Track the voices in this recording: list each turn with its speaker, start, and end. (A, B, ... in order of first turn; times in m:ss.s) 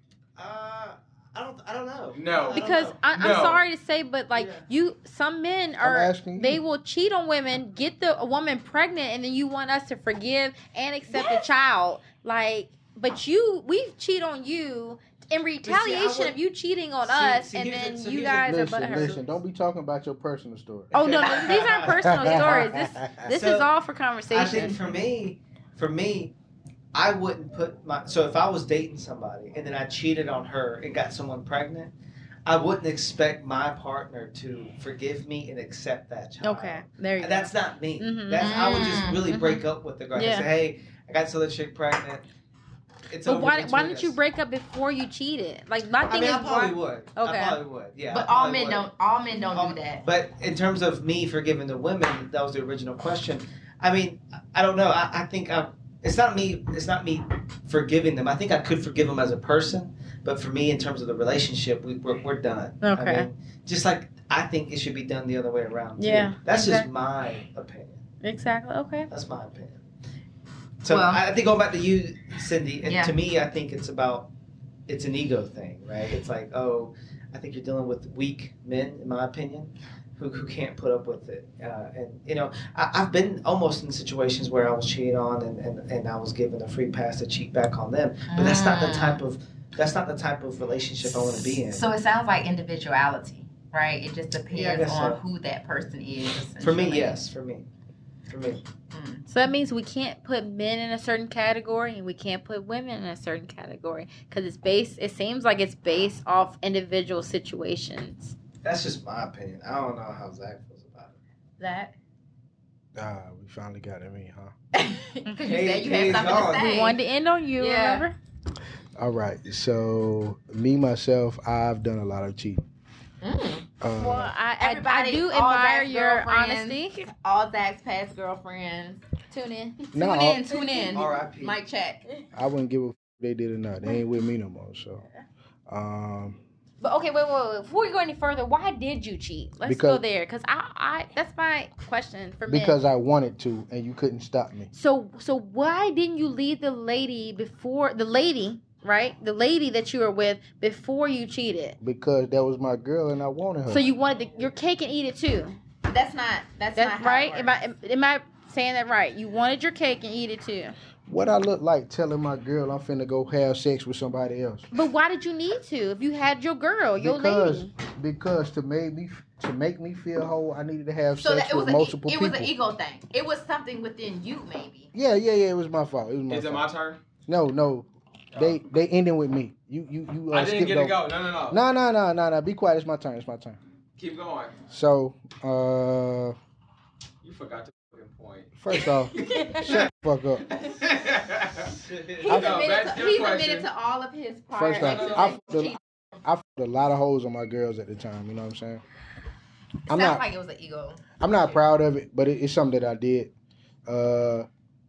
0:00.4-0:03.5 A
0:02.1-0:03.6 B
0:02.5-0:19.2 C
0:04.3-0:04.7 A
0:05.8-0:06.6 D
0:11.1-0:11.4 E
0:15.6-0:16.4 A
0:17.0-0:19.3 A
0:18.4-0:20.9 D
0:20.9-0:22.7 A
0:20.9-0:24.8 C
0:21.9-0:23.3 D
0:23.3-0:23.7 A
0:24.3-0:26.3 A
0:26.9-0:31.9 A
0:32.5-0:42.3 A
0:36.4-0:40.5 C
0:38.4-0:39.3 E
0:43.1-0:44.2 A
0:43.2-0:47.6 C
0:46.0-1:08.0 A
0:48.1-0:50.0 E
1:02.8-1:03.3 C
1:06.0-1:06.9 C
1:08.2-1:09.1 C
1:09.1-1:09.8 A
1:10.8-1:14.3 A
1:10.9-1:11.2 E
1:12.8-1:13.2 E
1:14.9-1:31.9 A
1:28.3-1:29.2 E
1:31.1-1:37.2 E
1:34.5-1:35.2 A
1:36.6-1:37.7 A
1:38.3-1:38.6 A
1:38.9-1:39.2 E
1:39.3-1:48.4 C
1:48.6-1:51.2 A
1:51.6-1:51.9 C
1:53.0-1:54.5 D
1:54.7-1:57.0 E
1:55.4-1:56.8 A
1:56.4-1:58.2 C
1:57.6-1:58.1 E
1:59.0-2:02.6 D
2:03.2-2:03.7 E
2:03.8-2:04.3 D
2:04.0-2:07.1 C
2:04.6-2:09.0 E
2:09.3-2:09.9 C
2:09.9-2:10.5 D
2:09.9-2:12.0 E
2:10.5-2:10.9 C
2:10.9-2:11.6 A
2:12.3-2:15.0 D
2:15.7-2:16.4 D
2:16.8-2:22.8 C
2:19.6-2:20.0 D
2:22.5-2:24.7 D
2:24.7-2:31.8 C
2:31.8-2:33.8 D
2:33.7-2:35.6 C
2:35.9-2:37.6 E
2:36.8-2:40.8 C
2:41.1-2:44.7 D
2:44.7-2:47.7 C
2:47.0-2:52.5 D
2:51.2-2:54.9 E
2:54.9-2:56.6 D
2:56.3-2:57.0 B
2:57.3-3:03.6 D
2:58.3-2:58.6 B
3:00.3-3:01.6 B
3:04.0-3:04.5 B
3:04.7-3:06.4 D
3:07.2-3:08.5 B
3:08.6-3:10.4 D
3:09.2-3:09.9 B
3:09.4-3:09.6 C
3:10.4-3:11.7 B
3:11.7-3:12.6 A
3:12.2-3:15.8 E
3:12.3-3:13.7 B
3:14.5-3:18.8 D
3:14.8-3:15.3 B
3:19.9-3:20.2 D
3:19.9-3:21.6 E
3:21.2-3:23.3 D
3:23.9-3:24.5 D